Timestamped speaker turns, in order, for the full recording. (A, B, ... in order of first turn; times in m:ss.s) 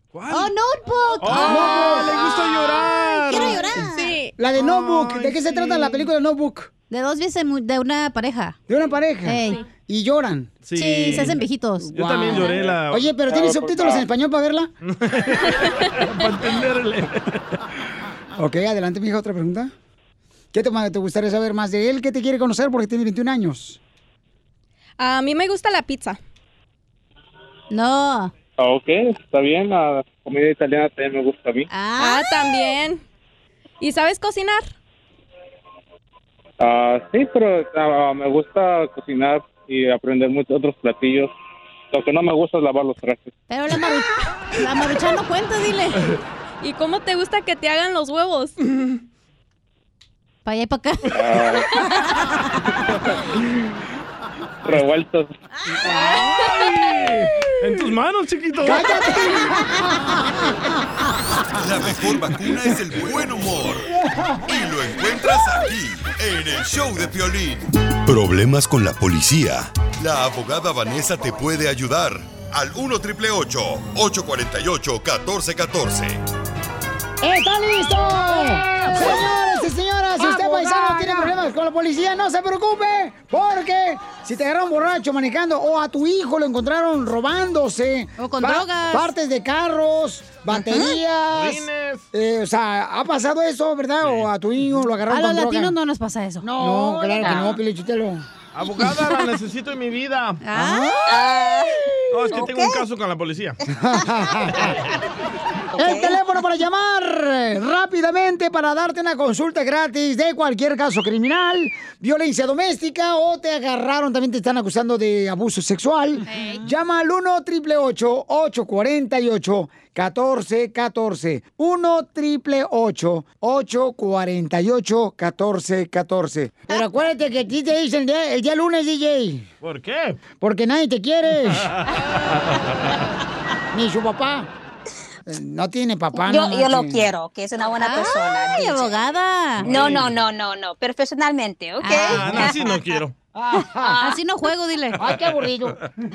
0:00.1-0:00.5 A
0:00.3-0:04.1 B
0:01.2-0:03.7 A
0:01.4-0:02.3 C
0:03.9-0:04.4 D
0:04.4-0:06.7 C
0:04.5-0:06.1 A
0:06.9-0:08.6 B
0:08.7-0:10.5 C
0:09.2-0:09.6 B
0:10.6-0:13.2 A
0:10.7-0:12.5 B
0:11.9-0:14.7 C
0:13.3-0:14.1 E
0:14.8-0:17.5 A
0:18.4-0:19.7 C
0:20.5-0:23.8 C
0:25.0-0:26.2 D
0:27.7-0:28.3 B
0:28.6-0:31.7 E
0:31.7-0:32.3 B
0:32.0-0:33.0 D
0:33.8-0:34.7 D
0:36.6-0:41.3 E
0:41.9-0:43.3 E
0:43.5-0:46.0 B
0:46.6-0:48.5 D
0:50.4-0:51.2 B
0:51.2-0:51.6 E
0:51.8-0:52.3 B
0:54.7-0:55.3 E
0:55.9-0:59.1 A
0:58.6-1:00.4 C
0:59.3-0:59.9 B
1:01.6-1:03.9 F
1:04.5-1:16.2 F
1:17.2-1:35.8 C
1:20.4-1:21.1 B
1:28.2-1:29.1 B
1:30.5-1:31.0 G
1:31.3-1:32.1 A
1:34.0-1:34.3 A
1:35.1-1:37.4 B
1:36.4-1:38.2 C
1:37.2-1:37.6 G
1:38.5-1:40.4 A
1:40.4-1:41.1 B
1:40.5-1:41.2 C
1:41.1-1:41.8 G
1:42.1-1:43.6 A
1:42.3-1:42.8 G
1:43.7-1:44.8 C
1:45.8-2:09.5 C
1:45.8-1:46.2 G
1:56.3-1:56.6 B
2:09.6-2:10.2 A
2:10.4-2:11.7 C
2:11.6-2:12.7 A
2:13.7-2:14.5 C
2:15.3-2:17.1 C
2:16.1-2:19.0 G
2:17.8-2:19.7 B
2:19.6-2:22.6 G
2:19.7-2:20.1 A
2:21.8-2:22.5 B
2:22.1-2:23.1 A
2:23.4-2:24.1 C
2:23.6-2:25.2 B
2:25.0-2:25.8 C